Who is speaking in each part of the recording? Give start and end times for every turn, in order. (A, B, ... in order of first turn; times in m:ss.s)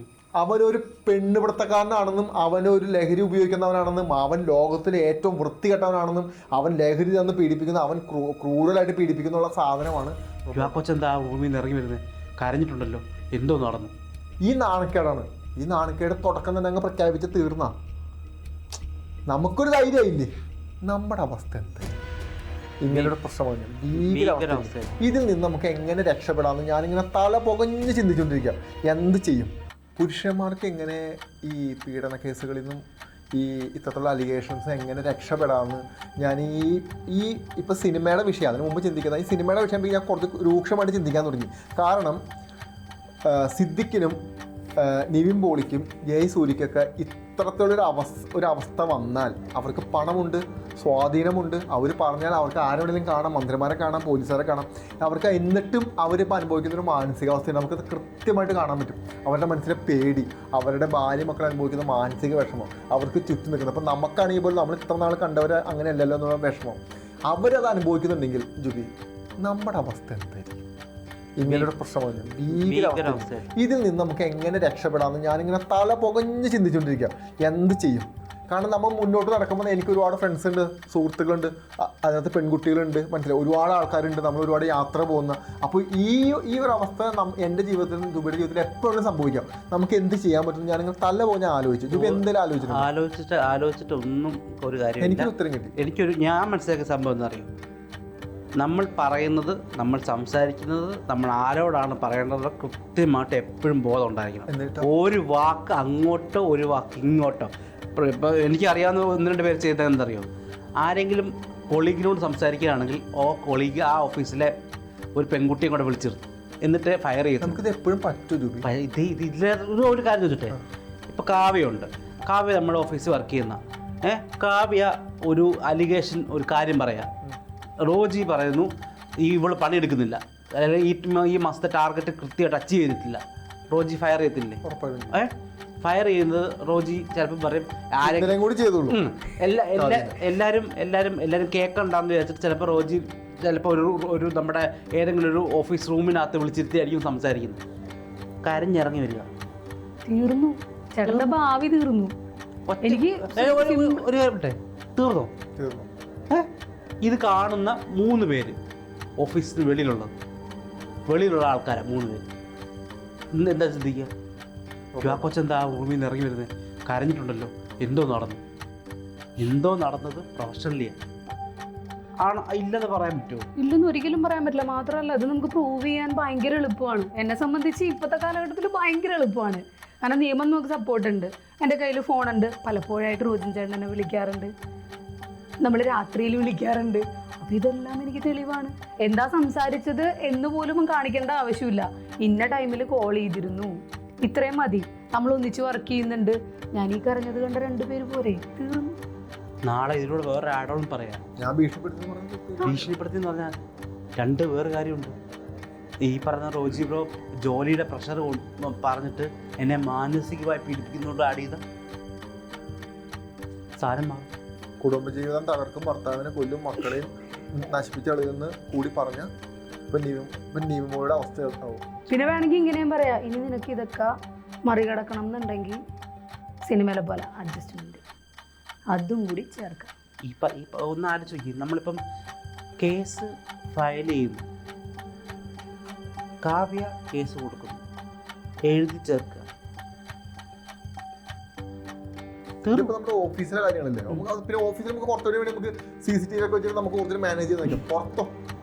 0:00.4-0:10.8 A
0:10.5-0:13.9 B
0:14.4-0:17.7 A
0:19.3-0:20.3 A
0:20.8-0:22.0 A
0:22.8-0:42.2 A
0:22.9-0:23.1 B
0:23.9-0:24.9 B
0:43.2-0:44.2 A
0:44.8-1:06.8 A
1:07.3-1:10.6 A
1:11.4-1:32.9 A
1:11.4-1:11.7 B
1:12.5-1:13.5 B
1:31.9-1:37.5 B
1:35.0-1:35.7 A
1:38.6-1:54.5 B
1:44.5-1:44.9 A
1:55.2-1:57.6 B
1:57.4-1:58.7 A
1:58.6-2:00.6 B
2:01.1-2:07.1 B
2:07.8-2:08.7 B
2:09.2-2:18.4 B
2:14.6-2:15.2 A
2:18.0-2:19.0 A
2:18.9-2:27.6 B
2:19.8-2:20.2 A
2:28.4-2:29.3 B
2:30.1-2:32.1 C
2:32.7-2:35.3 B
2:32.8-2:34.1 C
2:35.6-2:35.9 A
2:37.0-2:38.6 B
2:39.2-2:40.1 B
2:41.1-2:42.2 B
2:43.3-2:44.1 B
2:44.9-2:45.4 A
2:45.0-2:48.4 B
2:49.4-2:50.9 B
2:52.2-2:53.5 B
2:53.6-3:04.5 C
3:05.6-3:19.0 C
3:19.6-3:21.2 B
3:21.4-3:22.9 A
3:22.6-3:23.5 B
3:24.2-3:25.2 B
3:26.0-3:31.6 B
3:33.8-3:34.3 B
3:34.8-3:39.3 A
3:39.9-3:41.8 A
3:42.1-3:44.1 C
3:44.7-3:45.8 C
3:46.6-3:48.0 C
3:48.9-3:49.9 C
3:50.2-3:52.0 B
3:52.8-3:54.4 B
3:56.4-3:57.8 B
3:58.6-3:59.5 B
4:02.6-4:02.9 B
4:02.7-4:08.3 A